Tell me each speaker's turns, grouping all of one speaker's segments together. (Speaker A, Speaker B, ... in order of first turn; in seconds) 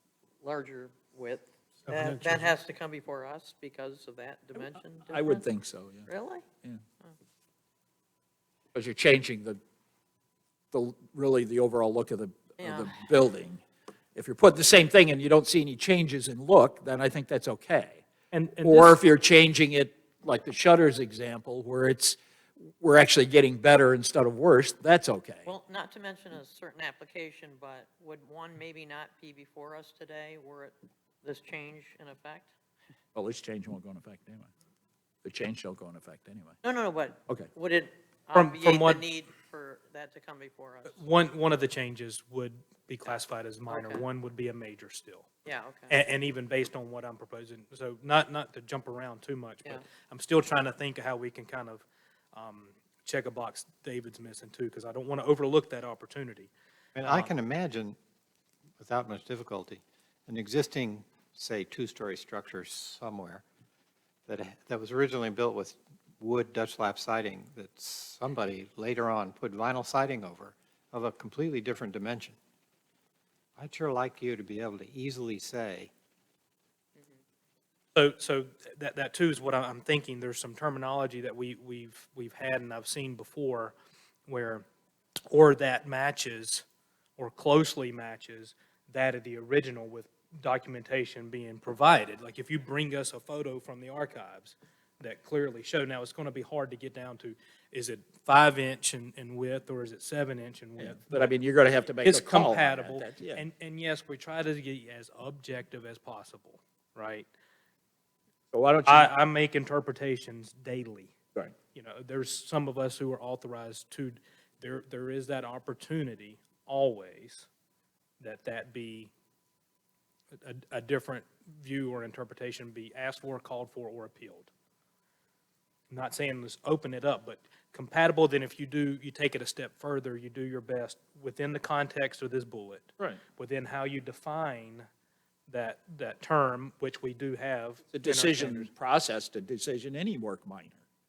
Speaker A: 0.4-5.5, 6.1-6.5, 12.6-13.0, 25.5-32.5, 36.6-41.0, 43.7-44.1, 45.5-46.0
Speaker B: 1.9-2.5, 57.0-58.0, 58.8-63.4, 64.3-72.4, 73.6-75.9
Speaker C: 5.1-6.1, 8.7-9.6, 10.7-13.6, 14.2-18.0, 18.6-25.5, 33.1-34.5, 35.2-36.6, 100.8-103.5, 108.5-109.1, 137.9-140.8
Speaker D: 18.3-19.0, 38.3-39.0, 40.9-45.3, 45.9-56.5, 57.0-57.3, 78.0-83.8, 84.3-84.7, 85.3-86.7, 87.2-101.4, 102.0-107.3, 108.9-111.1, 111.7-117.5, 118.2-119.1, 120.4-124.5, 125.9-134.9, 135.5-138.7